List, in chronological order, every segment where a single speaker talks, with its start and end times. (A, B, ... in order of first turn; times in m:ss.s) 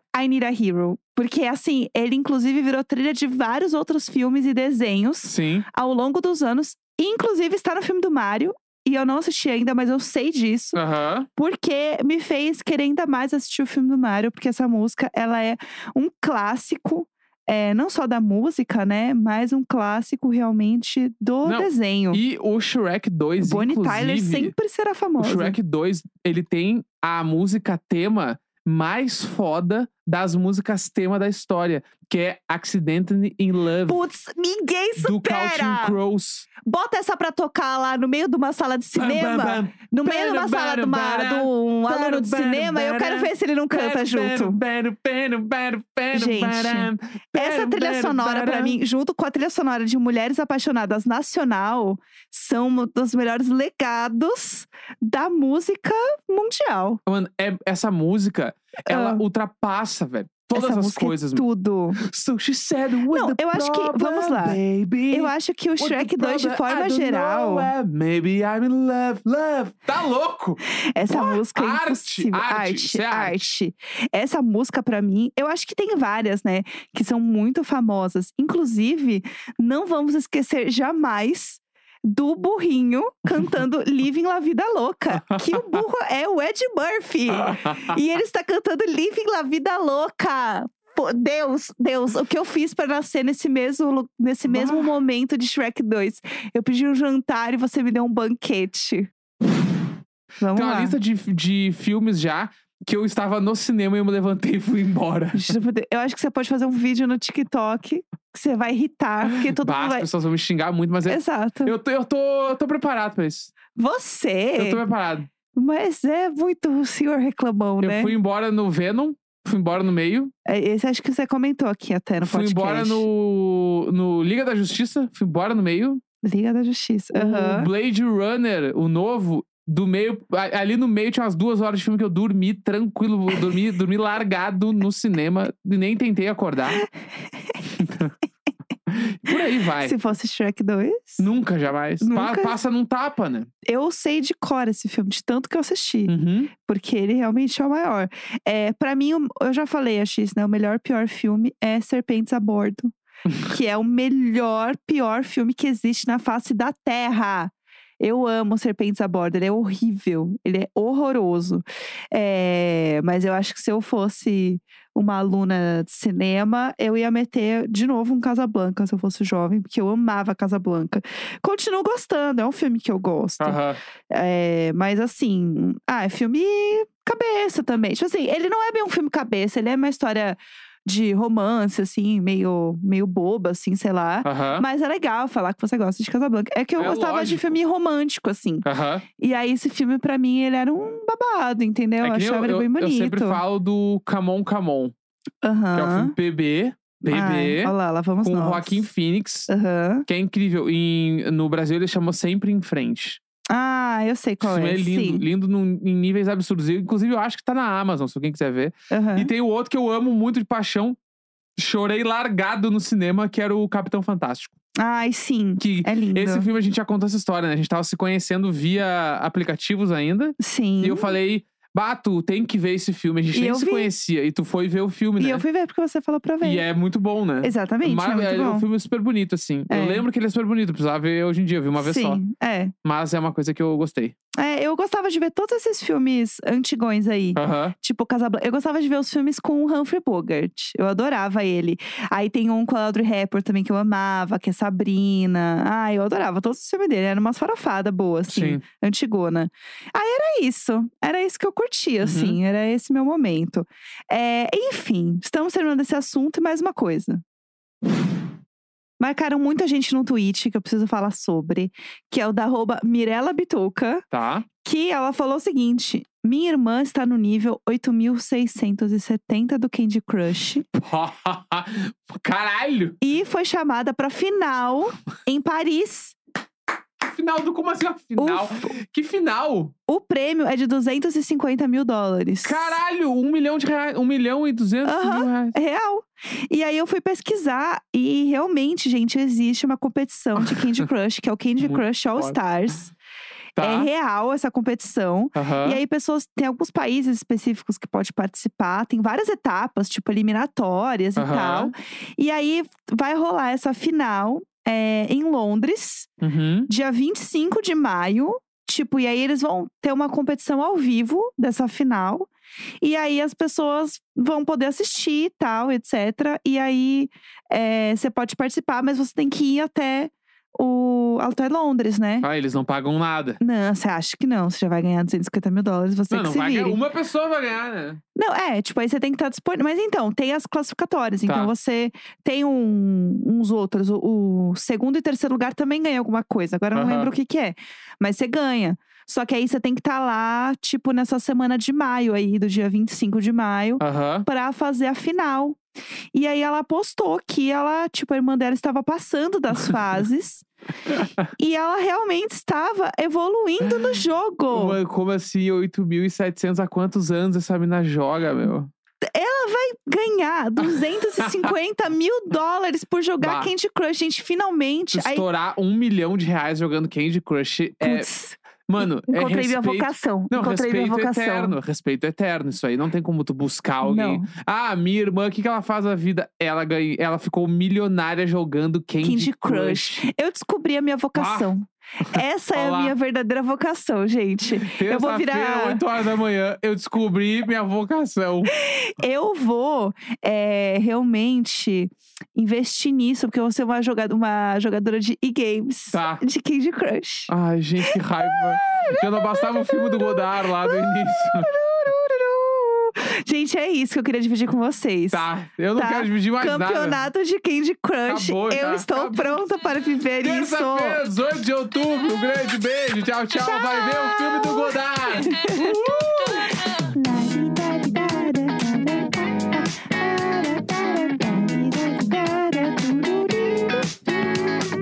0:00.1-0:10.8 A
0:05.2-0:05.7 B
0:10.7-0:11.3 B
0:11.4-0:22.2 A
0:21.4-0:24.5 B
0:23.4-0:25.6 A
0:25.2-0:34.0 B
0:33.9-0:36.0 A
0:35.0-0:36.5 B
0:36.6-0:44.6 A
0:39.0-0:48.8 B
0:46.1-0:57.0 A
0:57.1-1:01.4 B
0:58.9-0:59.2 A
1:00.5-1:02.0 A
1:02.0-1:13.4 B
1:03.1-1:07.7 A
1:10.9-1:39.1 A
1:25.3-1:25.8 B
1:27.3-1:28.0 B
1:34.5-1:34.9 B
1:40.4-1:41.0 A
1:40.5-1:45.5 B
1:45.3-1:50.1 A
1:49.5-1:53.5 B
1:51.0-1:51.8 A
1:53.7-1:54.8 A
1:54.6-1:55.3 B
1:55.5-1:58.2 A
1:57.8-2:00.3 B
2:00.4-2:03.0 A
2:02.2-2:06.0 B
2:06.2-2:07.7 A
2:07.1-2:16.8 B
2:16.7-2:17.6 A
2:17.8-2:18.1 B
2:18.9-2:20.0 B
2:19.3-2:21.3 A
2:21.2-2:23.5 B
2:22.0-2:22.6 A
2:23.6-2:32.9 A
2:26.1-2:26.5 B
2:33.3-2:33.5 B
2:33.4-3:08.6 A
2:53.4-2:53.8 B
3:04.2-3:04.6 B
3:06.8-3:07.5 B
3:08.6-3:09.0 B
3:09.2-3:13.4 A
3:12.0-3:14.9 B
3:15.4-3:16.1 A
3:15.7-3:19.5 B
3:17.0-3:18.8 A
3:19.5-3:20.0 A
3:20.1-3:23.2 B
3:23.5-3:25.2 A
3:24.4-3:31.0 B
3:28.9-3:29.3 A
3:31.6-3:34.5 B
3:34.8-3:36.5 A
3:35.6-3:45.4 B
3:40.4-3:41.1 A
3:43.3-3:43.9 A
3:45.2-3:46.6 A
3:46.4-3:52.2 B
3:47.4-3:48.6 A
3:49.7-3:50.0 A
3:51.8-3:52.7 A
3:52.8-3:54.1 B
3:54.4-4:17.2 A
3:57.4-3:57.7 B
4:08.3-4:08.6 B
4:12.0-4:12.4 B
4:19.0-4:30.7 A
4:24.1-4:24.5 B
4:30.7-4:33.0 B
4:33.0-4:36.2 A
4:37.0-4:39.7 B
4:38.2-4:38.7 A
4:39.9-4:42.8 A
4:42.4-4:45.6 B
4:44.8-4:52.9 A
4:51.6-4:52.4 B
4:53.6-4:53.9 B
4:53.6-5:06.1 A
4:55.3-4:55.8 B
5:01.2-5:01.7 B
5:06.2-5:06.7 B
5:06.7-5:12.3 A
5:12.8-5:22.3 A
5:22.2-5:23.4 B
5:23.4-5:26.8 A
5:26.1-5:28.0 B
5:28.2-5:45.6 A
5:31.2-5:31.5 B
5:36.7-5:37.1 B
5:43.8-5:44.2 B
5:46.1-5:50.5 A
5:50.9-5:51.2 B
5:51.4-5:54.8 A
5:54.5-5:58.7 B
5:59.0-6:05.2 A
6:00.6-6:01.5 B
6:03.2-6:03.5 B
6:04.9-6:08.1 B
6:07.8-6:11.6 A
6:08.7-6:20.1 B
6:13.8-6:14.2 A
6:19.0-6:25.8 A
6:21.1-6:21.5 B
6:22.1-6:22.9 B
6:24.5-6:28.5 B
6:28.5-6:37.3 A
6:35.9-6:36.2 B
6:37.3-6:41.5 B
6:37.8-6:51.0 A
6:45.1-6:47.0 B
6:48.1-6:49.4 B
6:50.2-6:56.5 B
6:53.3-7:04.6 A